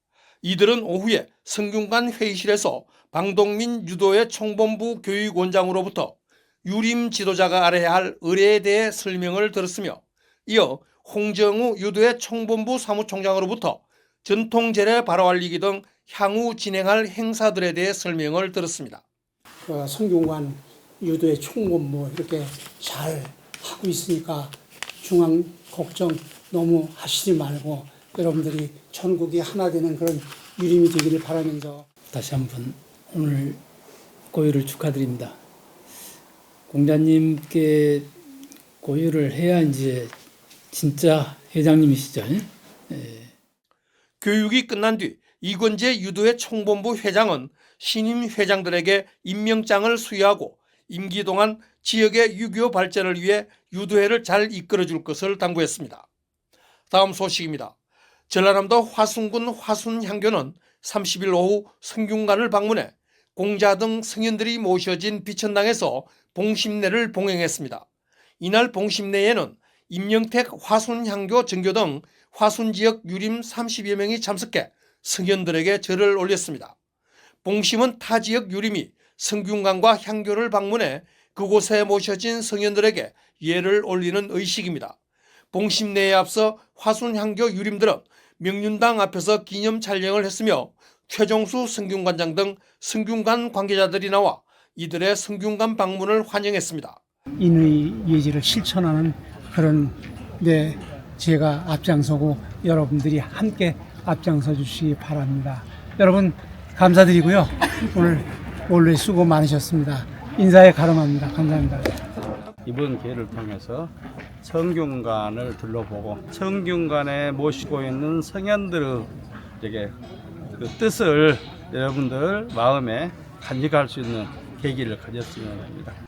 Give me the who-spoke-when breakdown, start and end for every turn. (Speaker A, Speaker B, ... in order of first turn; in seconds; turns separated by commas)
Speaker A: 0.4-6.1, Speaker A: 6.6-19.0, Speaker B: 19.6-31.9, Speaker C: 32.1-33.6, Speaker C: 34.3-35.4, Speaker C: 36.7-38.1, Speaker C: 38.8-40.1, Speaker C: 40.7-43.3, Speaker A: 44.2-56.0, Speaker A: 56.9-57.7, Speaker A: 58.3-67.8, Speaker A: 68.4-76.7, Speaker A: 77.4-85.0, Speaker A: 85.5-97.0, Speaker B: 97.4-111.9, Speaker D: 112.6-119.9, Speaker D: 120.5-126.0